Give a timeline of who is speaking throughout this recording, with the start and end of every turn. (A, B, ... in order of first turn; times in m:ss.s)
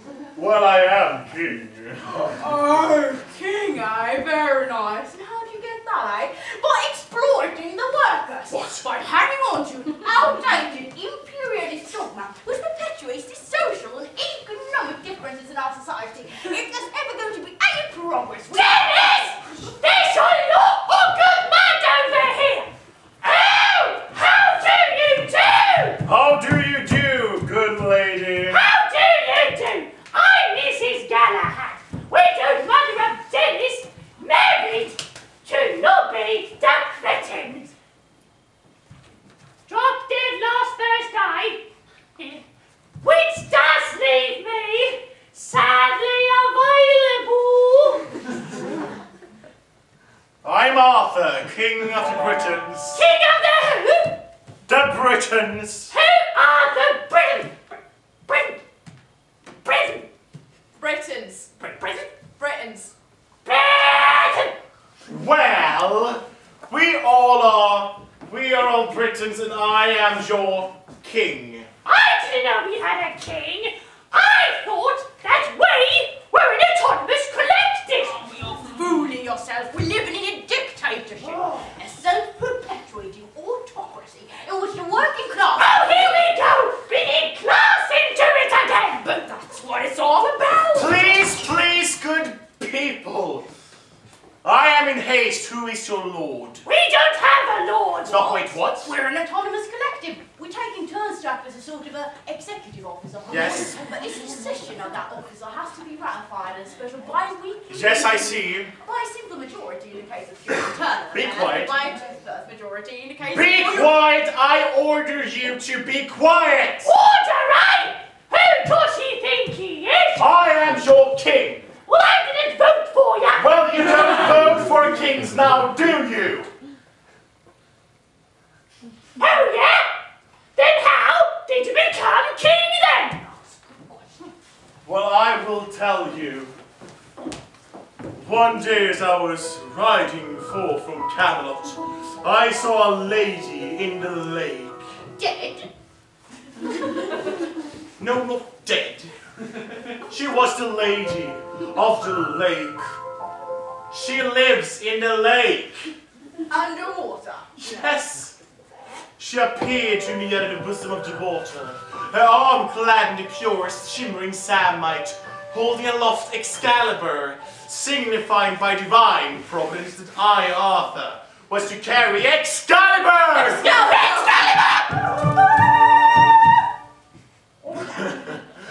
0:00.3-0:02.2 A
0:02.2-0:19.4 B
0:08.5-0:08.9 A
0:18.5-0:22.7 C
0:23.2-0:26.0 C
0:26.0-0:28.6 A
0:28.5-0:37.7 C
0:39.7-0:41.6 C
0:43.0-0:48.1 C
0:50.4-0:53.0 A
0:52.9-0:54.2 C
0:54.7-0:55.9 A
0:55.9-0:57.6 C
0:58.3-0:58.6 C
0:59.6-1:00.1 C
1:00.8-1:02.9 B
1:01.6-1:02.1 C
1:03.4-1:04.6 C
1:05.1-1:11.7 A
1:11.8-1:18.2 C
1:18.3-1:26.3 B
1:25.6-1:29.1 C
1:29.0-1:31.3 B
1:30.8-1:33.5 A
1:34.4-1:36.6 A
1:36.6-1:38.4 C
1:38.1-1:38.9 A
1:38.6-1:54.0 B
1:43.3-1:43.8 A
1:47.7-1:48.7 A
1:51.1-1:51.8 A
1:53.3-1:56.9 A
1:56.8-2:00.3 C
2:00.2-2:01.7 A
2:01.9-2:03.5 C
2:03.4-2:06.5 A
2:09.2-2:09.9 C
2:10.6-2:13.3 C
2:14.8-2:16.5 A
2:18.2-2:24.9 A
2:25.2-2:25.7 B
2:28.0-2:29.1 A
2:29.9-2:32.9 A
2:33.9-2:35.9 A
2:36.5-2:37.9 B
2:37.6-2:38.4 A
2:39.2-2:53.8 A
2:53.4-2:55.0 C
2:53.6-2:54.5 B
2:57.8-2:58.4 A